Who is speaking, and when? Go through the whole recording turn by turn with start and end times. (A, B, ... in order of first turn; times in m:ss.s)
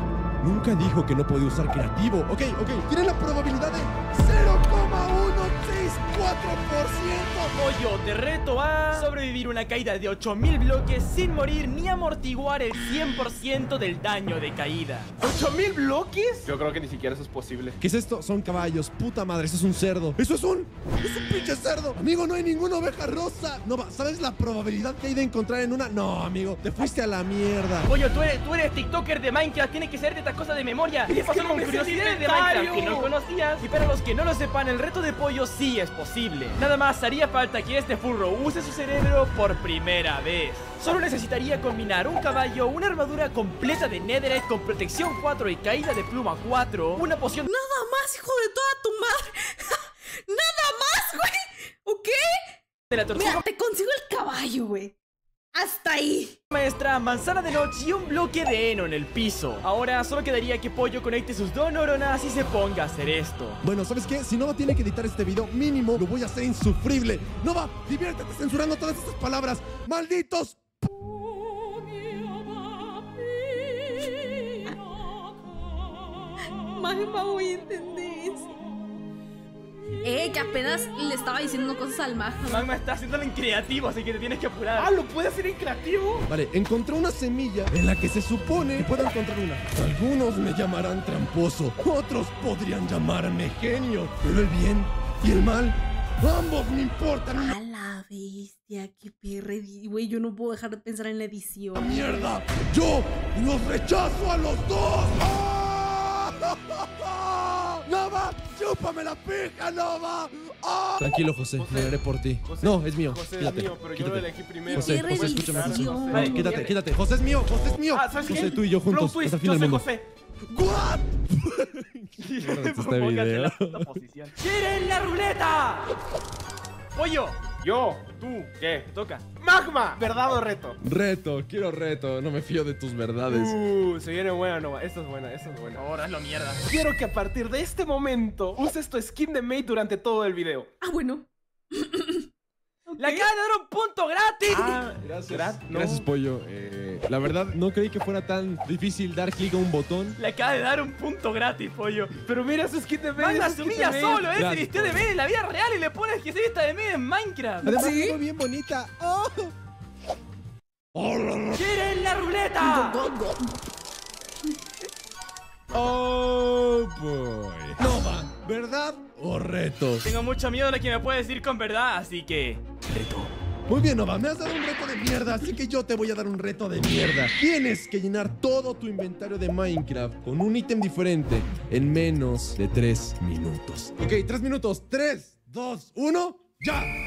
0:00.4-0:07.6 A
0:07.5-0:15.1 B
0:15.2-0:17.8 C
0:17.8-0:27.9 A
0:27.8-0:47.4 B
0:31.1-0:33.1 C
0:47.4-0:52.5 D
0:52.9-0:53.4 B
0:53.1-0:55.0 D
0:55.5-0:56.4 D
0:56.5-1:03.6 B
1:03.6-1:10.6 A
1:13.4-1:14.7 D
1:16.6-1:18.5 D
1:20.0-1:22.7 D
1:22.4-1:24.9 B
1:24.7-1:26.2 C
1:26.3-1:37.6 A
1:37.3-1:42.3 D
1:41.7-1:59.8 A
1:51.6-1:56.6 C
1:54.7-1:56.5 D
1:56.1-1:56.8 B
1:57.9-2:00.0 C
2:00.5-2:04.0 A
2:02.2-2:05.9 B
2:06.9-2:07.4 B
2:07.6-2:08.1 C
2:08.2-2:09.2 B
2:08.6-2:10.8 C
2:10.8-2:13.5 A
2:13.3-2:15.8 C
2:15.8-2:16.6 B
2:16.6-2:20.7 C
2:20.8-2:22.3 D
2:22.9-2:23.3 D
2:23.0-2:24.8 B
2:24.5-2:26.0 C
2:25.0-2:30.2 A
2:30.2-2:32.1 B
2:32.2-2:34.3 C
2:33.2-2:37.7 B
2:34.3-2:35.1 A
2:37.6-2:38.2 D
2:37.6-2:39.5 A
2:40.9-2:41.6 A
2:41.6-2:43.0 B
2:42.6-2:43.6 D
2:45.7-2:50.0 A
2:50.0-2:53.3 B
2:53.7-3:06.9 A